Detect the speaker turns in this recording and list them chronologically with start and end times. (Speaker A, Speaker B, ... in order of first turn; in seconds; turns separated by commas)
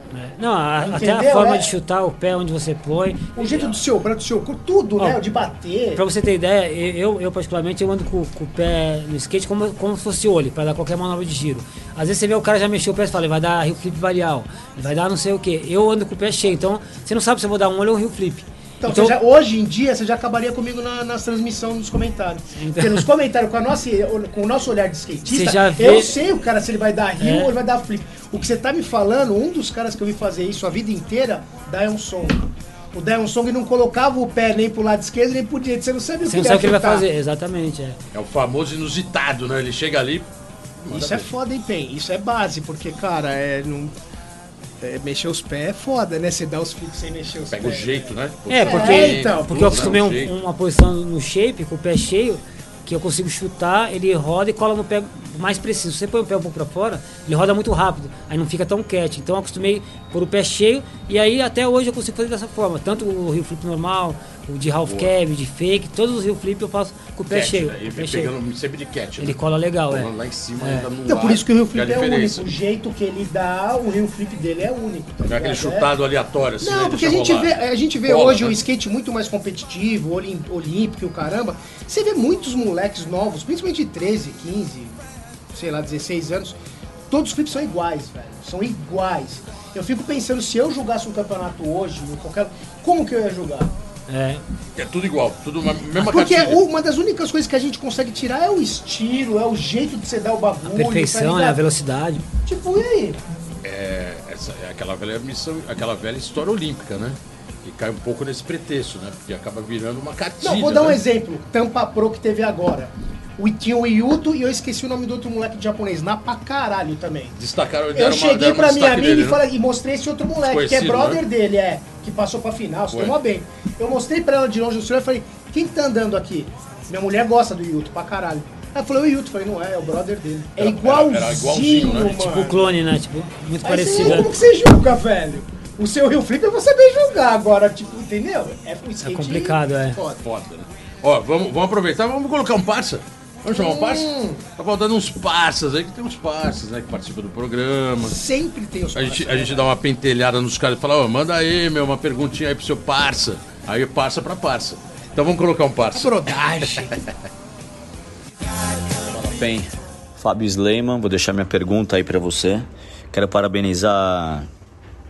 Speaker A: 0.1-3.4, Speaker B: 0.8-1.7, Speaker B: 3.4-6.0, Speaker A: 6.0-19.2, Speaker B: 18.8-37.1, Speaker A: 22.6-23.1, Speaker A: 25.3-26.2, Speaker A: 27.2-27.5, Speaker A: 36.2-38.0, Speaker C: 38.1-40.3, Speaker C: 40.8-41.3, Speaker B: 40.9-43.9, Speaker B: 44.8-48.1, Speaker C: 47.5-50.3, Speaker A: 48.5-68.3, Speaker B: 48.6-50.0, Speaker C: 64.8-65.1, Speaker C: 67.3-72.5, Speaker A: 69.2-70.1, Speaker A: 70.6-70.9, Speaker B: 71.1-75.9, Speaker C: 75.3-78.6, Speaker B: 76.6-85.0, Speaker B: 85.5-86.6, Speaker B: 87.1-93.8, Speaker A: 94.1-94.4, Speaker C: 94.8-96.6, Speaker B: 96.0-101.6, Speaker A: 100.7-102.2, Speaker B: 102.5-103.2, Speaker C: 103.6-111.0, Speaker B: 110.4-117.4, Speaker C: 117.4-119.4, Speaker B: 118.0-132.7, Speaker C: 120.5-121.2, Speaker C: 130.6-132.2, Speaker A: 132.0-134.3, Speaker B: 133.6-140.2, Speaker C: 134.0-134.3, Speaker A: 139.0-140.0, Speaker C: 140.2-148.2, Speaker B: 143.5-144.4, Speaker B: 148.0-149.7, Speaker C: 148.9-156.2, Speaker B: 155.9-157.0, Speaker D: 159.2-164.5